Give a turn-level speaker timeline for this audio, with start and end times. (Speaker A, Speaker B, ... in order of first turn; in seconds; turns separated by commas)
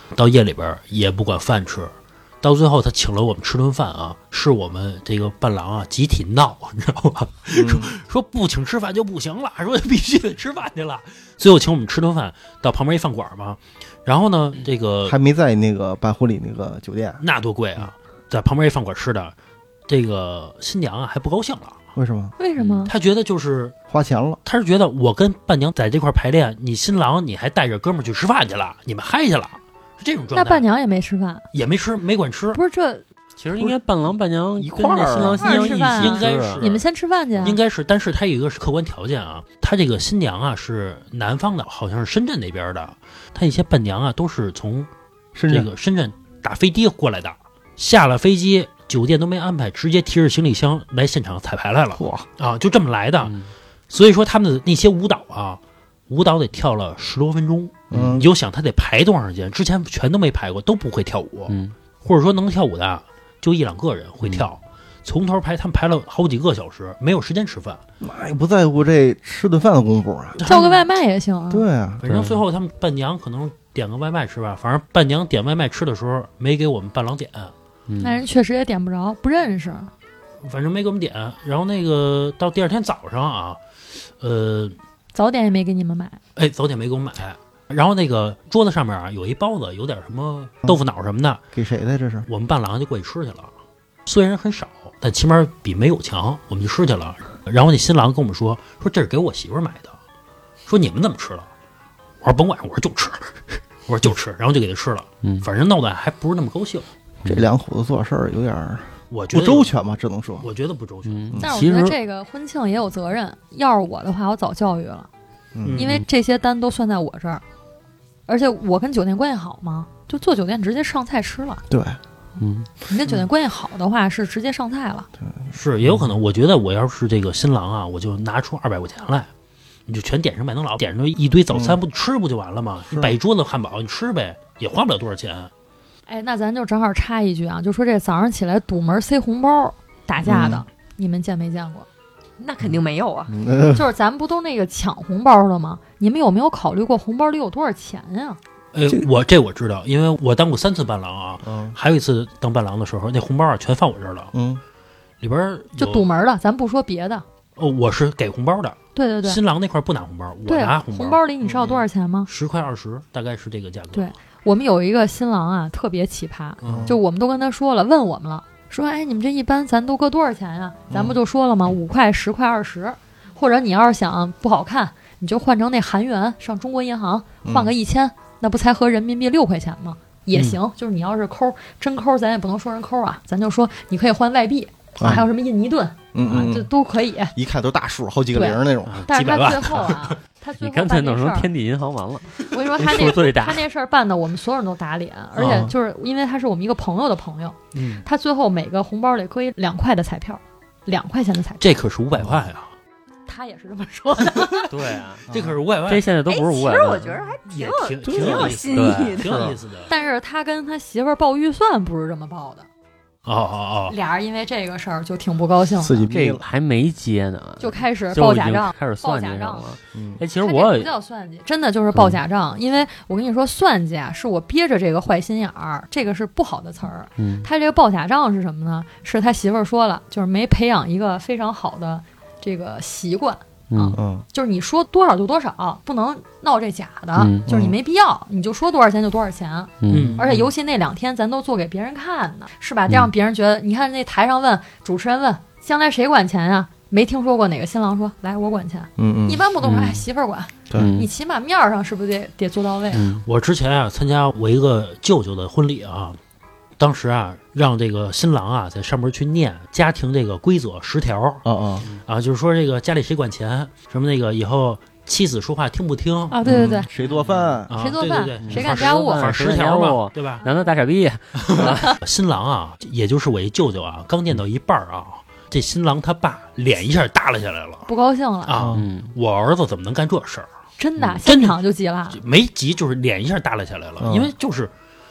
Speaker A: 0.1-15.2, Speaker B: 7.6-8.0, Speaker B: 15.1-17.2, Speaker A: 17.2-19.3, Speaker A: 19.9-21.8, Speaker B: 21.9-22.4, Speaker C: 22.4-22.9, Speaker A: 22.9-23.7, Speaker B: 23.9-24.4, Speaker A: 24.4-30.7, Speaker C: 30.3-31.5, Speaker A: 31.5-32.6, Speaker C: 32.5-33.0, Speaker D: 33.4-36.6, Speaker B: 34.6-35.7, Speaker C: 35.4-37.6, Speaker A: 35.6-36.9, Speaker A: 37.4-44.9, Speaker B: 45.4-45.7, Speaker A: 45.5-53.4, Speaker B: 52.0-52.3, Speaker D: 53.2-53.5, Speaker A: 53.9-67.8, Speaker B: 57.9-58.2, Speaker D: 57.9-58.2, Speaker D: 61.5-61.8, Speaker B: 68.0-70.4, Speaker A: 70.4-70.8, Speaker C: 70.4-71.7, Speaker B: 71.5-72.0, Speaker A: 72.0-77.5, Speaker D: 72.1-72.4, Speaker D: 77.9-78.2, Speaker C: 78.0-79.9, Speaker A: 80.4-83.6, Speaker A: 84.2-84.8, Speaker C: 85.1-86.2, Speaker A: 86.4-91.4, Speaker B: 91.5-92.3, Speaker A: 92.3-93.5, Speaker A: 94.1-99.9, Speaker A: 100.7-101.5, Speaker A: 102.2-106.9, Speaker B: 107.2-110.5, Speaker A: 109.1-109.7, Speaker A: 110.4-111.3, Speaker D: 111.1-112.0, Speaker C: 111.4-115.1, Speaker B: 115.5-115.8, Speaker A: 115.7-116.0, Speaker C: 115.8-117.4, Speaker C: 118.3-121.6, Speaker B: 121.7-122.0, Speaker D: 122.4-122.7, Speaker C: 122.9-125.1, Speaker B: 125.2-126.1, Speaker A: 125.5-129.3, Speaker A: 129.9-135.5, Speaker B: 131.5-131.8, Speaker C: 136.1-141.9, Speaker B: 140.2-140.6, Speaker E: 142.4-143.3, Speaker B: 143.3-143.9, Speaker C: 143.7-148.4, Speaker A: 148.7-154.3, Speaker B: 151.4-151.8, Speaker B: 154.3-154.6, Speaker A: 155.2-156.1, Speaker C: 155.8-157.2, Speaker A: 157.6-164.1, Speaker C: 158.9-159.4, Speaker C: 160.5-162.3, Speaker C: 163.9-187.3, Speaker A: 166.6-166.9, Speaker B: 166.6-167.0, Speaker B: 170.9-171.2, Speaker B: 177.4-177.7, Speaker A: 180.3-180.6, Speaker B: 185.0-185.3, Speaker B: 186.1-186.7, Speaker B: 187.3-189.0, Speaker C: 188.3-191.5, Speaker A: 188.9-190.2, Speaker D: 190.6-193.7, Speaker C: 192.5-201.7, Speaker B: 195.4-195.7, Speaker A: 197.7-198.1, Speaker A: 201.6-202.7, Speaker C: 203.3-204.7, Speaker D: 204.7-205.3, Speaker B: 205.3-205.6, Speaker A: 205.3-206.1, Speaker D: 205.8-207.3, Speaker E: 206.3-209.4, Speaker A: 207.5-209.9, Speaker B: 208.1-208.6, Speaker D: 208.7-209.4, Speaker B: 209.3-209.6, Speaker C: 209.9-212.7, Speaker A: 213.3-214.0, Speaker C: 213.9-216.0, Speaker B: 215.8-216.5, Speaker D: 216.0-220.9, Speaker C: 217.6-219.7, Speaker B: 219.9-220.2, Speaker C: 220.4-253.0, Speaker D: 221.9-222.2, Speaker D: 227.2-227.5, Speaker D: 233.7-234.0, Speaker B: 233.9-234.2, Speaker D: 237.2-237.5, Speaker B: 237.5-237.8, Speaker D: 239.8-240.2, Speaker A: 239.9-240.5, Speaker B: 249.0-249.4, Speaker D: 249.6-250.0, Speaker B: 250.7-250.9, Speaker D: 250.7-251.1, Speaker D: 252.9-253.2, Speaker A: 253.3-256.2, Speaker A: 256.8-266.6, Speaker B: 261.4-261.9, Speaker C: 266.3-266.9, Speaker B: 266.4-267.7, Speaker A: 267.1-270.4, Speaker C: 267.8-269.4, Speaker D: 268.4-272.0, Speaker C: 270.4-270.8, Speaker A: 271.4-277.9, Speaker C: 271.6-271.9, Speaker C: 277.9-278.6, Speaker A: 278.5-280.5, Speaker B: 278.6-278.9, Speaker D: 278.7-279.1, Speaker C: 280.8-282.2, Speaker A: 281.2-281.6, Speaker A: 282.1-284.7, Speaker B: 284.0-284.3